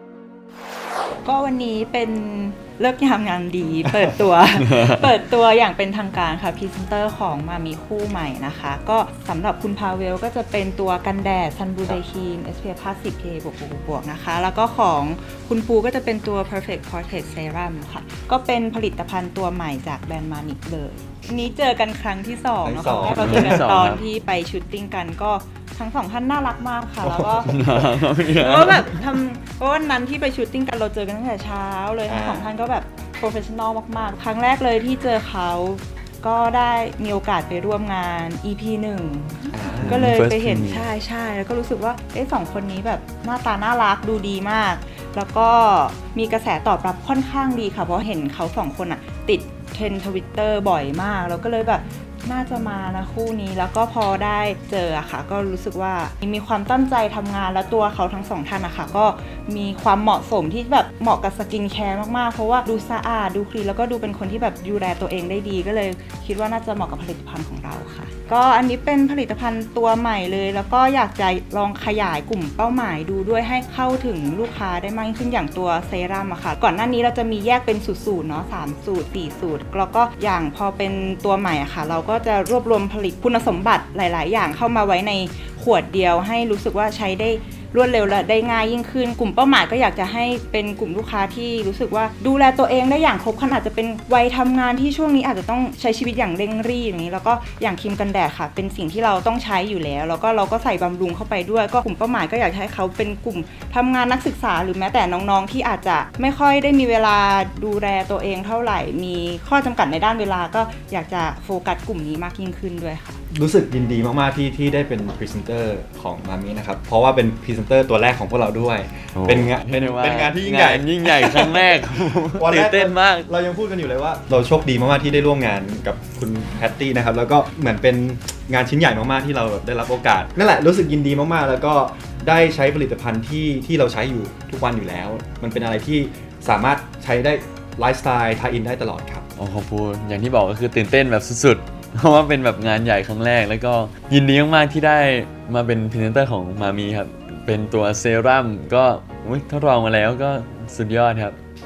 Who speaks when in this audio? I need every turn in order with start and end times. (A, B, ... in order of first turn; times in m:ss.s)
0:01.2-0:27.6 A
0:22.6-0:23.6 B
0:23.1-0:24.0 C
0:27.0-0:27.8 B
0:27.4-0:28.9 C
0:28.2-1:53.2 A
0:32.1-0:32.5 B
0:39.5-0:40.1 B
0:39.8-0:40.9 C
1:53.3-2:01.8 B
1:59.2-2:03.3 C
2:02.4-2:19.3 B
2:19.4-2:31.4 C